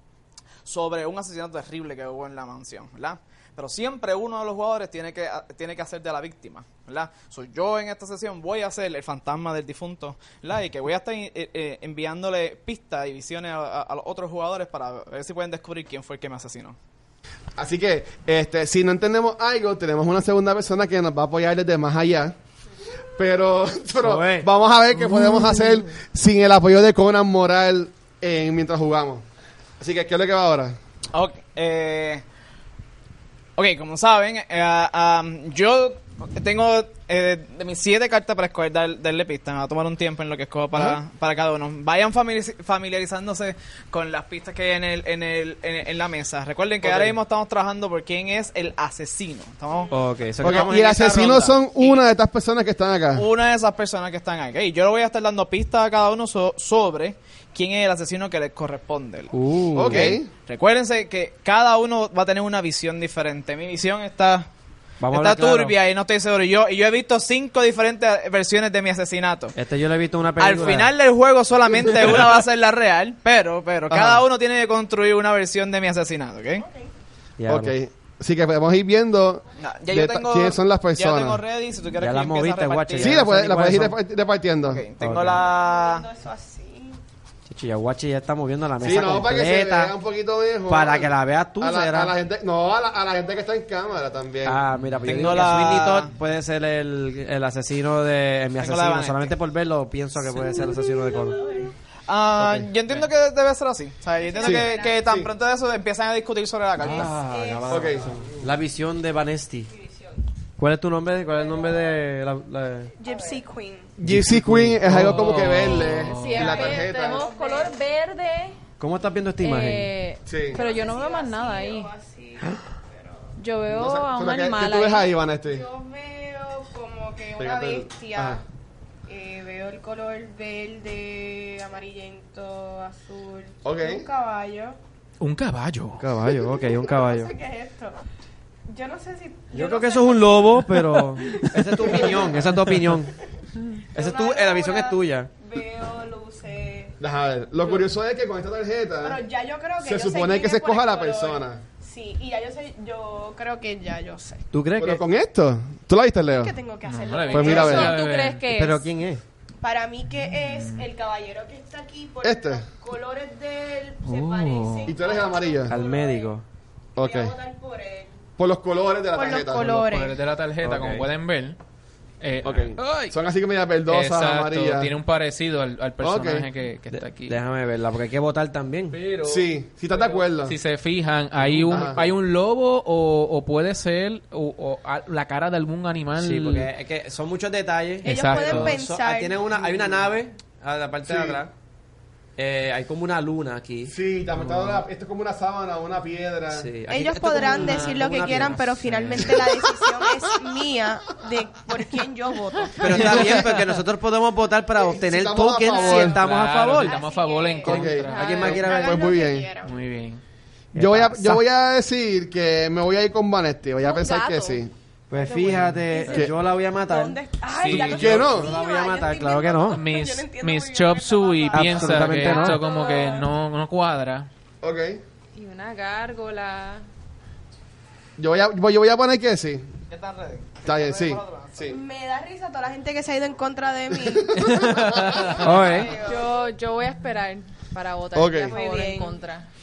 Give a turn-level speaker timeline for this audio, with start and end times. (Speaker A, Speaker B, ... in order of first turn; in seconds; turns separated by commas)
Speaker A: 0.7-16.8, Speaker B: 17.6-22.4, Speaker B: 23.2-29.2, Speaker C: 24.0-24.5, Speaker B: 29.8-30.8, Speaker A: 31.1-32.2, Speaker A: 33.6-52.0, Speaker C: 46.8-47.2, Speaker C: 49.9-51.4, Speaker B: 50.4-53.3, Speaker A: 53.1-59.3, Speaker C: 59.3-60.1, Speaker B: 59.8-60.3, Speaker A: 59.9-64.5, Speaker C: 65.0-65.8, Speaker A: 65.1-69.5, Speaker C: 69.5-70.9, Speaker A: 70.4-76.7, Speaker B: 73.9-74.2, Speaker D: 76.6-76.9, Speaker C: 77.4-77.8, Speaker B: 77.5-81.4, Speaker A: 79.6-83.2, Speaker C: 82.0-84.0, Speaker B: 83.0-84.8, Speaker A: 84.6-86.0, Speaker C: 85.0-85.4, Speaker D: 85.4-87.0, Speaker C: 87.5-89.9, Speaker B: 88.8-94.6, Speaker C: 90.7-92.1, Speaker C: 94.4-101.4, Speaker E: 94.8-95.4, Speaker A: 95.1-96.1, Speaker A: 98.6-99.3, Speaker D: 100.3-101.7, Speaker A: 102.1-107.2, Speaker B: 102.4-102.7, Speaker D: 104.2-105.0, Speaker B: 104.4-105.3, Speaker C: 106.8-109.7, Speaker D: 106.9-108.1, Speaker B: 107.7-108.1, Speaker D: 109.7-110.2, Speaker C: 110.6-112.9, Speaker D: 113.0-113.9, Speaker B: 114.0-117.3, Speaker C: 114.0-115.1, Speaker E: 114.8-116.7, Speaker F: 115.7-118.6, Speaker D: 116.5-117.8, Speaker C: 118.8-119.9, Speaker F: 119.4-121.9, Speaker B: 120.3-120.6, Speaker D: 120.5-123.3, Speaker F: 123.4-125.1, Speaker B: 123.7-125.7, Speaker D: 125.4-128.4, Speaker B: 127.4-128.4, Speaker D: 129.1-134.8, Speaker B: 133.7-134.1, Speaker E: 135.2-136.0, Speaker C: 136.0-137.3, Speaker D: 136.6-137.9, Speaker D: 138.7-142.6, Speaker C: 139.5-143.1, Speaker C: 143.9-145.3, Speaker D: 143.9-146.9, Speaker B: 147.0-149.2, Speaker D: 149.0-154.5, Speaker B: 149.8-151.6, Speaker C: 154.5-155.0, Speaker B: 154.8-156.6, Speaker D: 156.3-157.9, Speaker E: 156.8-158.4, Speaker B: 157.3-157.9, Speaker F: 157.4-158.8, Speaker C: 158.5-159.2, Speaker D: 159.6-166.3, Speaker E: 160.2-160.8, Speaker B: 162.2-162.7, Speaker E: 164.0-164.9, Speaker B: 164.9-165.7, Speaker C: 165.7-166.4, Speaker B: 167.0-167.3, Speaker D: 167.0-168.2, Speaker B: 168.4-169.8, Speaker D: 169.1-170.2, Speaker E: 169.7-171.6, Speaker C: 170.6-171.1, Speaker E: 172.2-173.2, Speaker B: 172.4-174.9, Speaker E: 173.9-177.4, Speaker B: 176.0-176.5, Speaker C: 176.9-179.0, Speaker E: 178.9-186.7, Speaker B: 179.2-180.6, Speaker B: 181.4-182.1, Speaker C: 186.2-191.5, Speaker D: 188.0-189.5, Speaker E: 188.0-188.8, Speaker B: 191.1-191.4, Speaker C: 192.4-193.9, Speaker B: 193.9-196.7, Speaker C: 196.5-199.4, Speaker D: 196.9-203.5, Speaker E: 197.4-198.6, Speaker C: 202.8-207.0, Speaker E: 202.9-203.4, Speaker B: 204.8-206.2, Speaker E: 205.9-208.7, Speaker D: 206.8-209.7, Speaker B: 207.6-209.5, Speaker F: 207.8-208.5, Speaker C: 208.1-209.0, Speaker E: 209.6-210.2, Speaker C: 210.7-211.4, Speaker B: 210.8-214.7, Speaker F: 213.8-214.6, Speaker C: 215.1-217.2, Speaker D: 215.3-223.3, Speaker E: 215.4-215.8, Speaker E: 217.6-218.3, Speaker B: 217.7-218.5, Speaker C: 217.8-219.8, Speaker E: 219.7-224.3, Speaker C: 221.5-222.6, Speaker B: 224.6-225.0, Speaker F: 225.3-226.8, Speaker B: 228.2-229.7, Speaker A: 229.9-231.7, Speaker B: 230.7-231.8, Speaker D: 231.7-234.6, Speaker B: 234.0-235.2, Speaker E: 234.3-235.8, Speaker D: 235.1-236.3, Speaker C: 235.4-235.9, Speaker F: 236.0-239.5, Speaker B: 238.1-238.6, Speaker D: 238.4-239.2